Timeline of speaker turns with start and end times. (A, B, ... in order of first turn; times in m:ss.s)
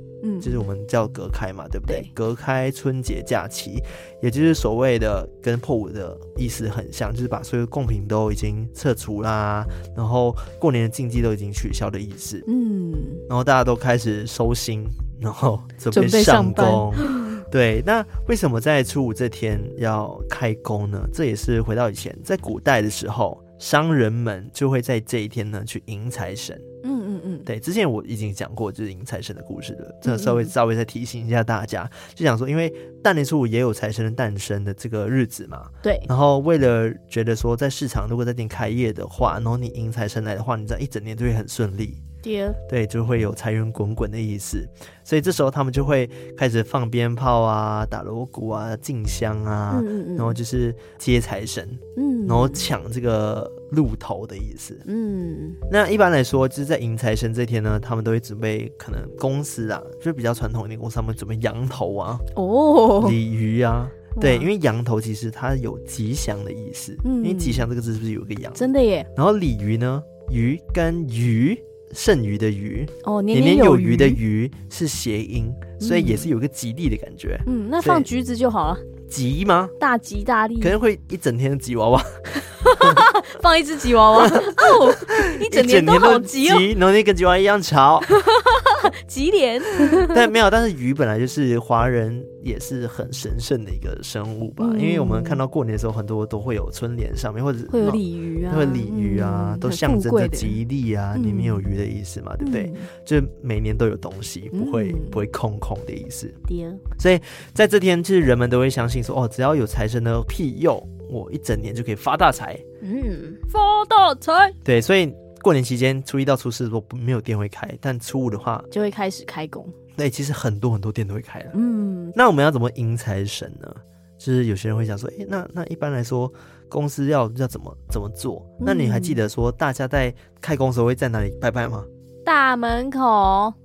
0:00.2-0:00.6 A
0:00.4-0:12.5 B
0:12.5-0:13.2 A
0:13.3-0:26.6 B
0:15.9-0:17.4 A
0:26.8-0:27.5 A
0:27.5-0:42.0 B
0:30.0-0:30.5 A
0:35.8-0:36.1 A
0:42.2-0:42.6 A
0:42.7-0:54.8 B
0:49.7-0:50.4 A
0:52.0-0:52.7 A
0:54.8-0:55.6 A
0:55.7-1:02.2 B
1:02.4-1:03.2 A
1:03.0-1:18.1 B
1:04.2-1:04.5 A
1:07.0-1:07.7 A
1:08.6-1:09.1 A
1:13.0-1:14.2 A
1:15.8-1:16.3 A
1:17.5-1:18.8 A
1:19.1-1:19.8 B
1:19.8-1:20.8 A
1:20.6-1:23.1 B
1:22.6-1:26.7 A
1:24.2-1:28.2 B
1:28.1-1:30.3 A
1:29.9-1:46.4 B
1:34.6-1:35.4 A
1:37.7-1:40.6 A
1:41.1-1:41.7 A
1:42.4-1:42.9 A
1:44.5-1:45.2 A
1:46.5-1:46.8 A
1:47.0-1:52.6 B
1:52.8-1:54.6 A
1:54.6-1:58.7 B
1:58.7-1:59.7 A
2:00.0-2:01.6 B
2:01.5-2:02.2 A
2:02.1-2:11.9 B
2:08.6-2:09.2 A
2:12.2-2:13.6 A